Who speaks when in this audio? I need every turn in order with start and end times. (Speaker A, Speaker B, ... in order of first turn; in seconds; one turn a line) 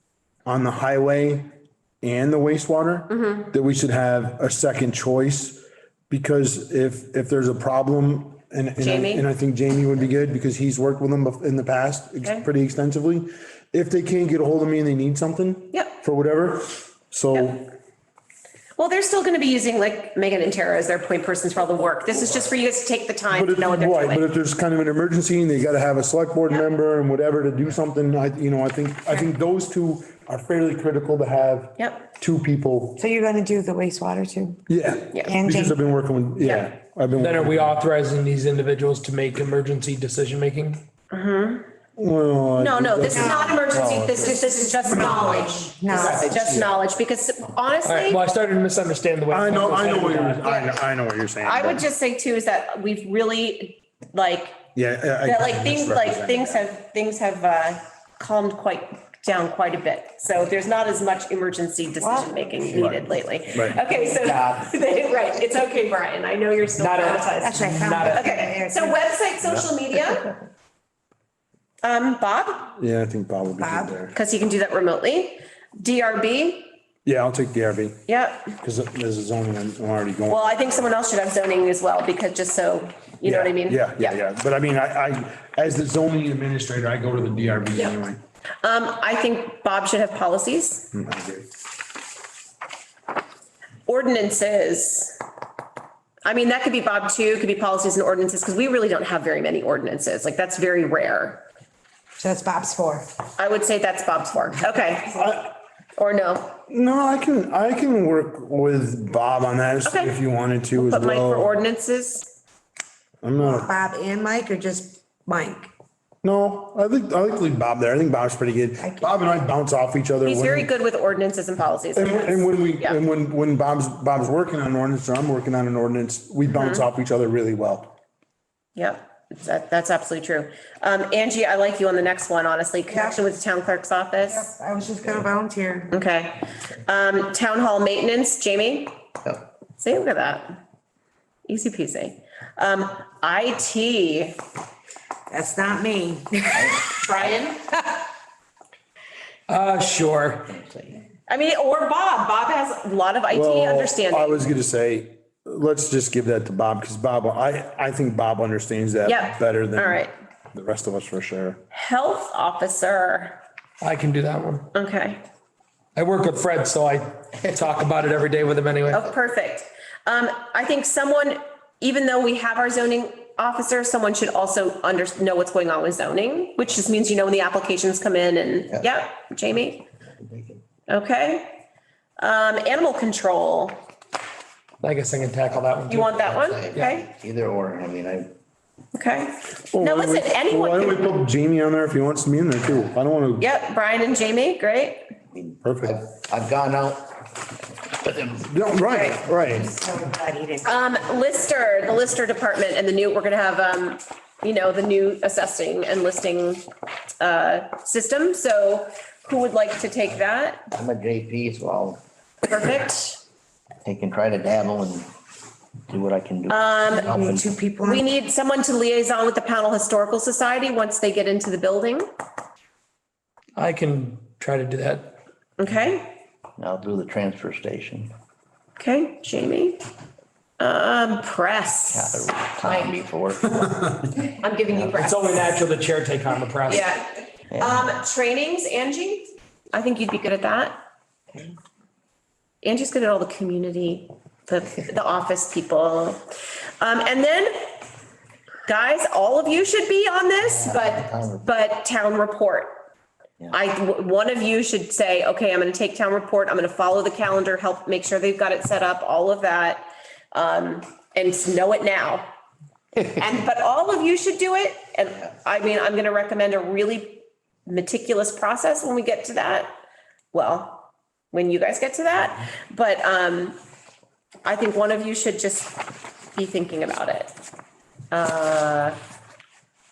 Speaker A: 0.5-17.7
Speaker B: 3.1-3.5
Speaker B: 8.8-9.3
Speaker B: 18.8-24.2
Speaker A: 23.3-33.0
Speaker B: 31.8-32.1
Speaker C: 33.0-34.6
Speaker A: 34.7-37.8
Speaker C: 35.2-35.8
Speaker B: 36.4-36.7
Speaker D: 37.2-40.8
Speaker B: 41.1-41.6
Speaker A: 42.0-43.9
Speaker B: 42.6-48.2
Speaker C: 43.1-43.6
Speaker E: 43.8-44.1
Speaker C: 44.1-46.3
Speaker D: 45.9-46.4
Speaker A: 46.4-46.7
Speaker D: 47.8-50.4
Speaker A: 49.3-51.9
Speaker B: 50.4-50.8
Speaker B: 51.4-54.7
Speaker A: 54.8-56.6
Speaker B: 55.2-67.5
Speaker C: 62.0-62.9
Speaker A: 62.7-63.8
Speaker D: 64.2-64.6
Speaker D: 66.7-68.5
Speaker C: 67.4-69.0
Speaker B: 68.1-70.3
Speaker E: 69.4-70.3
Speaker B: 71.8-72.7
Speaker A: 72.8-74.1
Speaker C: 73.6-74.0
Speaker B: 74.1-76.8
Speaker A: 77.0-78.0
Speaker B: 78.1-78.5
Speaker A: 78.6-80.5
Speaker B: 80.3-84.2
Speaker A: 83.2-88.2
Speaker B: 88.6-90.9
Speaker A: 90.9-91.5
Speaker B: 93.9-95.2
Speaker B: 96.2-101.4
Speaker C: 102.2-103.1
Speaker B: 103.4-105.2
Speaker A: 105.1-105.6
Speaker B: 106.0-106.6
Speaker A: 106.7-111.5
Speaker B: 109.8-110.2
Speaker B: 110.8-112.3
Speaker A: 113.2-113.8
Speaker C: 113.4-115.7
Speaker A: 116.2-120.7
Speaker C: 118.8-119.1
Speaker B: 120.2-123.0
Speaker A: 122.0-127.9
Speaker B: 126.6-126.8
Speaker B: 128.8-134.5
Speaker C: 132.9-133.2
Speaker C: 134.2-135.9
Speaker B: 135.9-139.0
Speaker B: 139.8-140.6
Speaker B: 141.5-144.4
Speaker C: 145.3-146.7
Speaker E: 146.5-147.4
Speaker B: 146.9-147.6
Speaker D: 149.5-150.5
Speaker E: 150.5-151.0
Speaker B: 151.3-154.4
Speaker A: 153.3-161.6
Speaker B: 159.1-160.1
Speaker B: 161.7-163.4
Speaker D: 163.8-164.7
Speaker B: 164.7-165.2
Speaker D: 165.9-169.1
Speaker B: 168.9-179.9
Speaker E: 180.2-180.6
Speaker B: 180.9-181.6
Speaker B: 182.2-183.8
Speaker D: 184.8-187.0
Speaker B: 185.9-187.1
Speaker E: 186.2-188.3
Speaker B: 188.9-191.1
Speaker A: 189.7-193.4
Speaker B: 193.4-195.1
Speaker E: 195.3-197.2
Speaker A: 195.6-196.0
Speaker E: 198.0-198.6
Speaker A: 198.5-199.7
Speaker B: 198.9-199.2
Speaker C: 199.5-200.7
Speaker B: 200.6-206.6
Speaker B: 207.2-210.7
Speaker E: 210.7-212.0
Speaker B: 212.4-213.2
Speaker E: 213.8-215.1
Speaker E: 215.9-217.6
Speaker B: 216.5-217.1
Speaker C: 216.9-218.1
Speaker B: 217.8-222.1
Speaker D: 223.6-225.2
Speaker B: 225.6-226.2
Speaker E: 226.6-228.1
Speaker B: 228.8-229.8
Speaker B: 230.6-232.9
Speaker E: 231.9-233.5
Speaker B: 234.3-235.6
Speaker E: 234.7-235.0
Speaker D: 234.9-236.9
Speaker B: 236.7-237.1
Speaker E: 237.5-237.9
Speaker B: 237.6-240.8
Speaker B: 242.6-246.2
Speaker B: 246.8-247.7
Speaker B: 248.7-252.8
Speaker E: 250.3-251.5
Speaker B: 253.5-262.3
Speaker B: 263.1-269.7
Speaker B: 270.3-273.6
Speaker B: 274.4-275.8
Speaker B: 276.3-277.3
Speaker B: 278.1-279.0